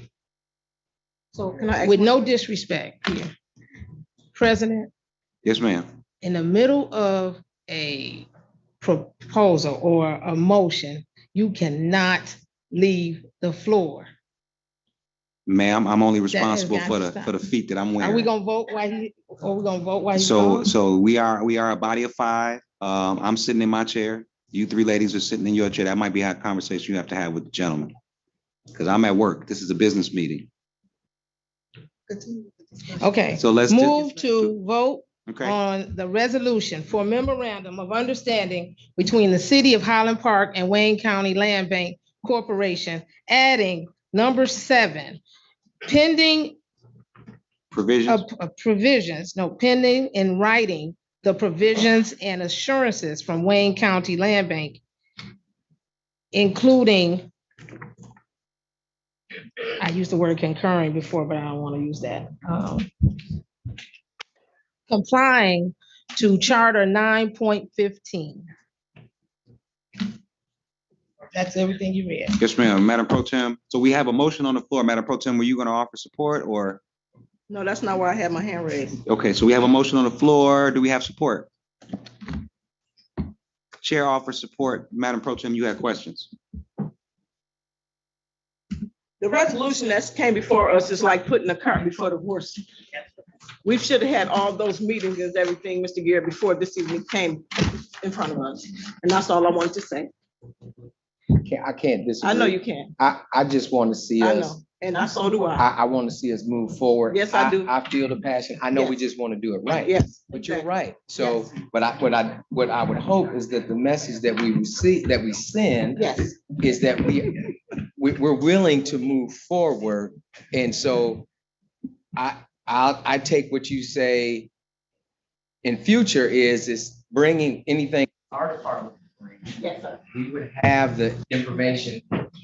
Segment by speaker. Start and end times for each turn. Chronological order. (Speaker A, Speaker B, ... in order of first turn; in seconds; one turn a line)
Speaker A: 1.4-3.3
Speaker B: 1.5-2.1
Speaker A: 4.3-4.9
Speaker C: 5.4-5.9
Speaker A: 6.2-8.3
Speaker A: 8.8-14.1
Speaker C: 15.5-18.3
Speaker A: 16.3-17.3
Speaker A: 18.0-20.7
Speaker C: 20.2-27.9
Speaker C: 28.7-30.5
Speaker A: 33.0-45.2
Speaker C: 33.3-34.5
Speaker C: 35.3-35.6
Speaker A: 45.8-46.6
Speaker C: 47.7-48.2
Speaker A: 48.1-54.8
Speaker A: 56.3-57.3
Speaker A: 59.8-62.9
Speaker A: 64.9-68.5
Speaker A: 71.3-72.4
Speaker C: 72.4-76.8
Speaker B: 77.5-79.0
Speaker C: 79.1-81.5
Speaker C: 83.8-86.3
Speaker B: 89.2-92.6
Speaker B: 93.6-100.1
Speaker D: 101.4-104.6
Speaker B: 102.2-102.9
Speaker B: 104.2-105.7
Speaker D: 105.6-121.3
Speaker B: 107.1-107.7
Speaker B: 108.7-109.0
Speaker B: 109.8-111.4
Speaker B: 116.0-116.4
Speaker D: 122.2-124.5
Speaker D: 125.6-129.6
Speaker B: 129.6-130.0
Speaker D: 130.1-132.0